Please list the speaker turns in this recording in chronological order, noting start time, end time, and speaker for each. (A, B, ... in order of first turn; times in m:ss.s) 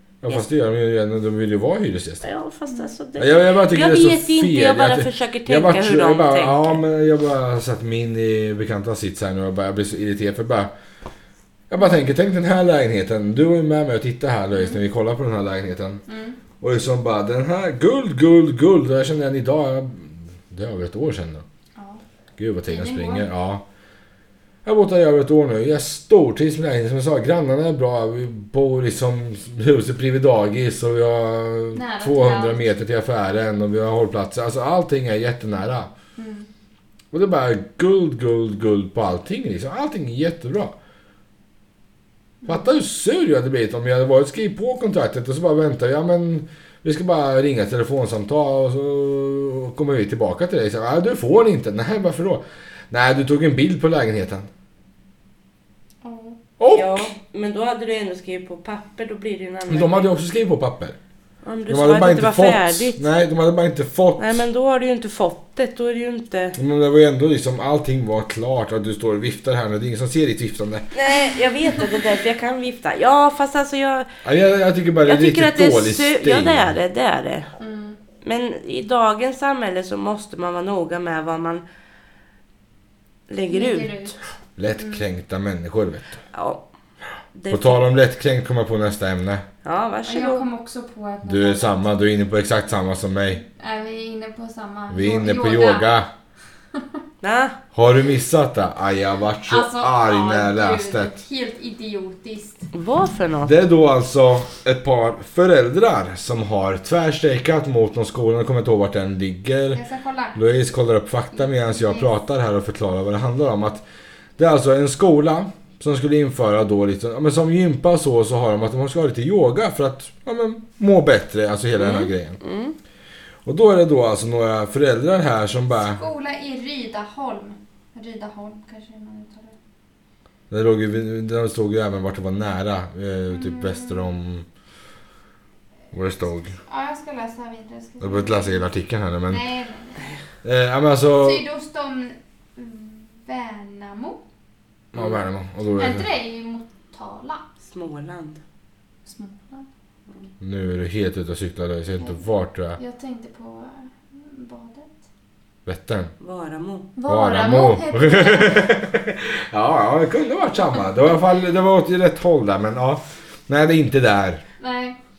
0:00.2-0:02.2 A
0:02.2-0:06.8 B
0:03.2-0:10.7 A
0:11.7-0:16.0 A
0:16.1-0:16.4 C
0:16.6-0:21.4 A
0:21.8-0:22.0 C
0:22.4-0:23.6 A
0:22.7-0:23.3 C
0:24.6-0:35.9 A
0:31.7-0:32.7 C
0:36.2-0:36.5 C
0:37.1-0:40.7 A
0:42.4-0:54.5 A
0:56.0-0:56.4 C
0:56.6-0:57.1 A
0:56.7-1:00.1 B
0:59.7-1:01.0 A
1:01.4-1:03.0 B
1:01.7-1:04.4 A
1:04.2-1:06.6 B
1:06.6-1:10.8 A
1:10.9-1:14.1 B
1:14.2-1:16.7 A
1:15.0-1:17.5 B
1:17.6-1:18.0 C
1:18.2-1:21.6 B
1:23.3-1:24.2 B
1:23.5-1:24.2 C
1:24.6-1:26.2 A
1:24.8-1:25.0 C
1:26.3-1:26.6 B
1:27.3-1:27.9 B
1:27.5-1:29.4 A
1:29.6-1:30.4 B
1:30.1-1:31.9 C
1:31.3-1:33.4 A
1:33.5-1:35.9 C
1:34.9-1:36.1 A
1:37.2-1:37.6 B
1:37.7-1:41.1 A
1:39.5-1:42.7 C
1:42.7-1:43.6 B
1:43.4-1:49.8 A
1:49.7-1:50.4 C
1:50.4-1:53.8 A
1:51.3-1:52.1 C
1:54.4-2:02.4 A
2:01.8-2:02.7 B
2:03.4-2:06.0 A
2:05.9-2:09.5 C
2:10.5-2:14.4 A
2:13.3-2:14.1 C
2:15.9-2:16.6 A
2:16.6-2:18.7 C
2:18.0-2:19.4 A
2:19.3-2:20.1 C
2:20.4-2:21.4 A
2:21.2-2:24.2 C
2:24.9-2:26.0 A
2:25.8-2:27.4 C
2:27.6-2:28.4 B
2:29.0-2:29.6 C
2:30.4-2:32.8 A
2:32.0-2:35.0 C
2:35.6-2:36.1 A
2:36.2-2:36.9 B
2:37.0-2:38.8 C
2:37.1-2:44.4 A
2:44.6-2:45.0 C